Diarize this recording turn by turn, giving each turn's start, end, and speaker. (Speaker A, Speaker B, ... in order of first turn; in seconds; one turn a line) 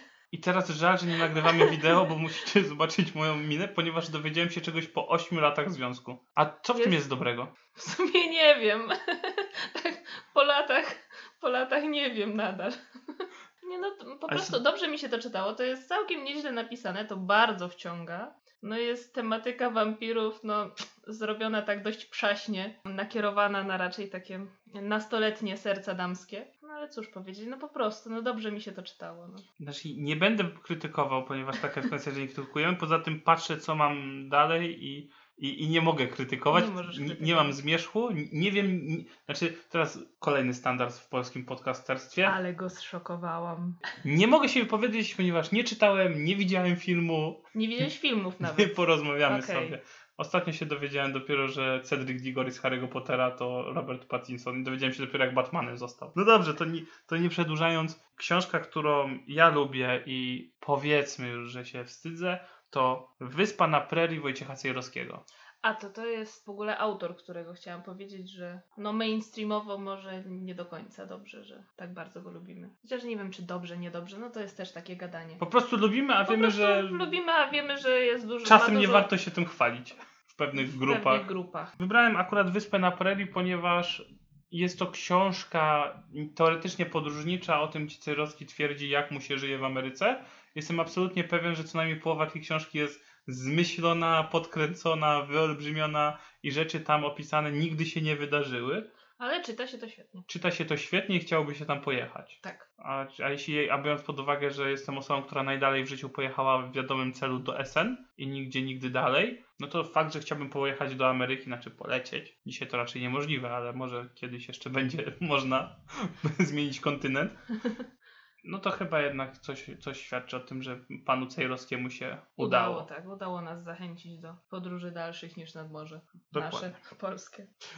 Speaker A: 0.3-7.5
Speaker B: 1.2-2.1
Speaker B: 6.8-7.0
Speaker B: 7.8-29.4
Speaker A: 14.3-14.6
Speaker A: 29.6-42.4
Speaker B: 36.5-37.6
Speaker B: 42.2-43.8
Speaker A: 44.0-47.4
Speaker B: 47.5-49.8
Speaker A: 48.4-65.2
Speaker B: 65.6-75.4
Speaker A: 75.4-77.0
Speaker B: 76.3-79.1
Speaker A: 78.4-81.3
Speaker B: 80.5-81.8
Speaker A: 81.8-98.9
Speaker B: 99.2-100.3
Speaker A: 100.3-117.4
Speaker A: 118.4-122.9
Speaker B: 122.4-127.5
Speaker A: 126.3-126.8